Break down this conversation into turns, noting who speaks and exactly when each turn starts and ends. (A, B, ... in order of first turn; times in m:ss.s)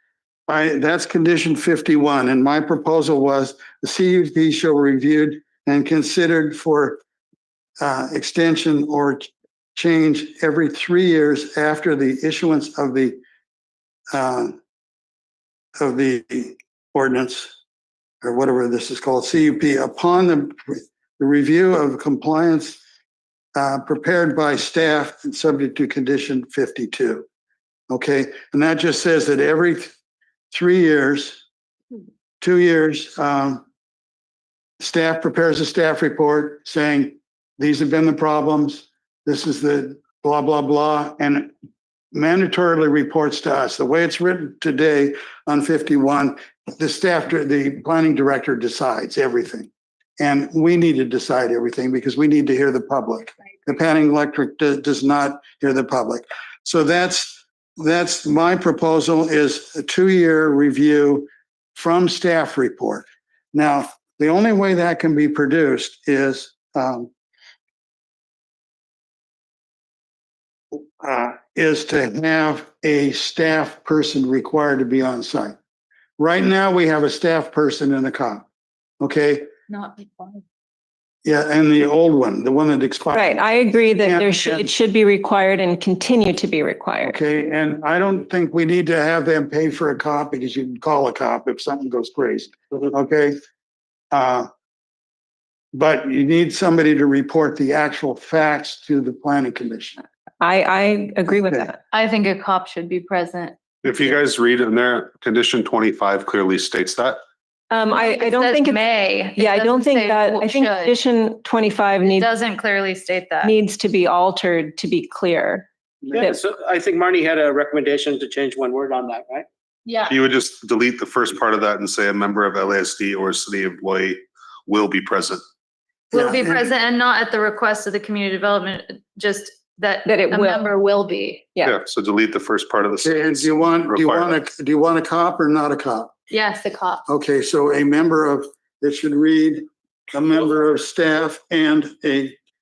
0:00.5-0:07.0 A
0:07.8-0:13.2 A
0:14.1-0:14.6 A
0:15.8-0:17.6 A
0:18.2-0:22.8 A
0:23.6-0:27.2 A
0:27.9-0:30.0 A
0:30.5-0:31.4 A
0:32.4-0:33.6 A
0:34.8-0:41.5 A
0:42.1-1:07.1 A
1:10.8-1:15.6 A
1:16.2-1:18.4 A
1:19.0-1:19.5 A
1:19.7-1:20.4 B
1:21.2-1:23.4 A
1:23.1-1:27.2 C
1:24.0-1:24.7 A
1:27.0-1:33.4 A
1:34.1-1:34.5 A
1:35.7-1:40.0 A
1:40.4-1:41.8 C
1:41.9-1:43.6 B
1:43.8-1:47.2 D
1:47.7-1:52.3 C
1:47.9-1:51.0 B
1:52.2-1:53.5 B
1:53.4-1:56.4 C
1:56.0-1:59.5 E
1:59.9-2:00.2 B
2:00.1-2:05.4 D
2:06.1-2:11.5 B
2:06.1-2:06.7 A
2:10.1-2:10.7 C
2:11.6-2:14.4 D
2:13.0-2:16.2 A
2:16.3-2:17.0 B
2:17.1-2:22.4 A